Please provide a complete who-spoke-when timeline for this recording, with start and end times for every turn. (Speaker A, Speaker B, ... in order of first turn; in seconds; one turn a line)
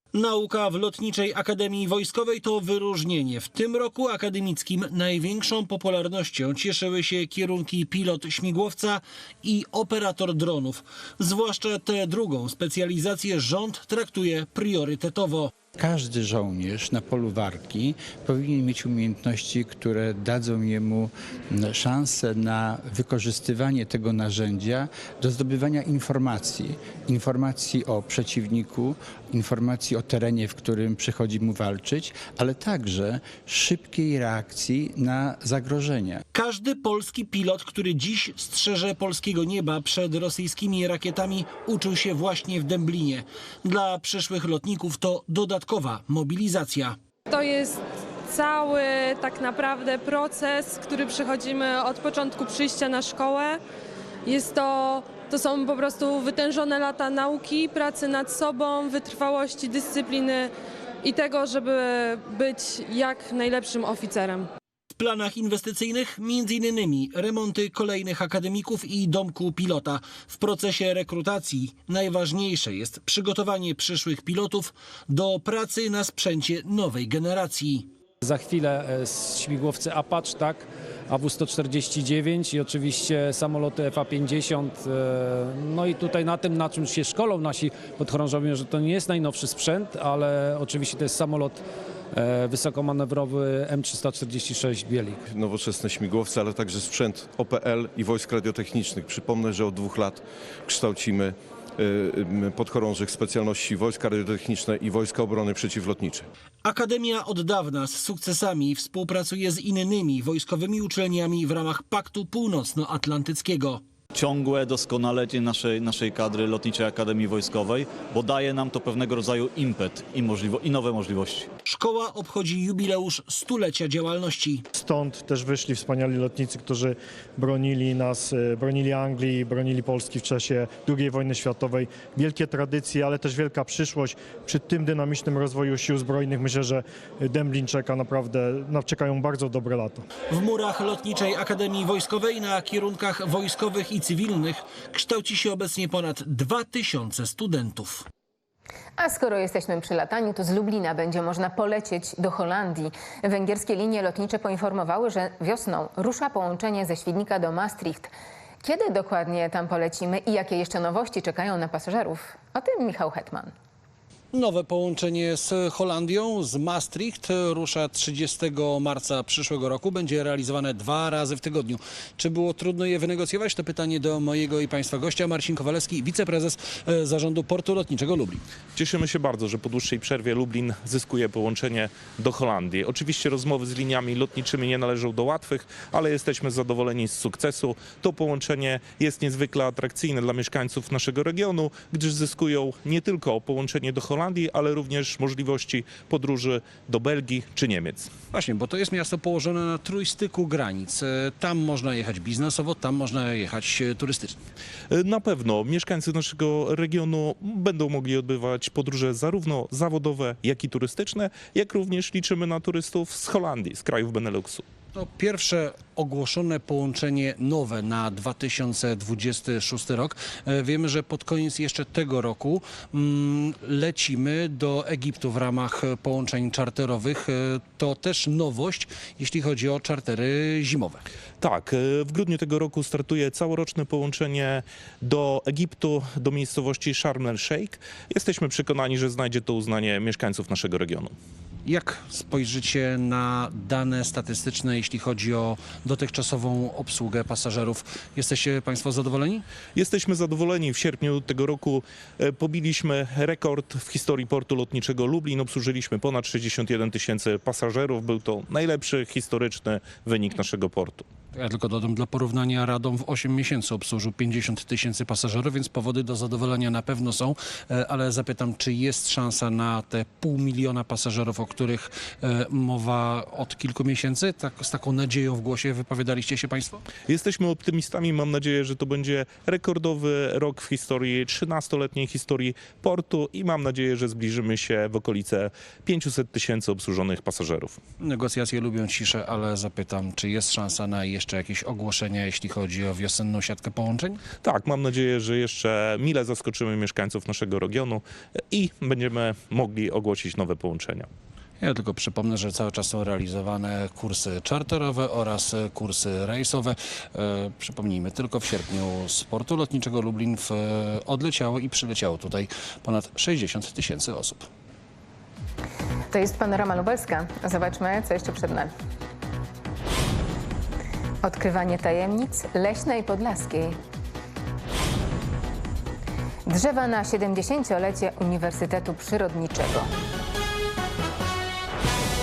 Speaker A: 0.1-15.5
Speaker B: 15.8-36.2
Speaker A: 36.3-47.0
Speaker C: 47.3-53.6
Speaker C: 54.3-60.5
Speaker C: 61.0-64.5
Speaker A: 64.9-77.9
Speaker D: 78.2-95.2
Speaker E: 95.3-106.3
Speaker A: 106.6-113.8
Speaker F: 114.1-121.5
Speaker A: 121.7-124.7
Speaker G: 124.7-140.1
Speaker A: 140.3-148.1
Speaker H: 149.0-158.1
Speaker H: 158.6-163.5
Speaker I: 164.3-178.4
Speaker J: 178.8-198.1
Speaker I: 198.3-204.4
Speaker J: 204.9-214.6
Speaker I: 214.9-231.0
Speaker J: 231.4-241.1
Speaker I: 241.7-249.4
Speaker J: 249.8-261.1
Speaker I: 261.3-276.8
Speaker J: 277.1-287.8
Speaker I: 288.0-294.2
Speaker J: 294.4-301.1
Speaker I: 301.6-314.5
Speaker H: 316.1-318.7
Speaker H: 321.2-323.8
Speaker H: 326.5-329.9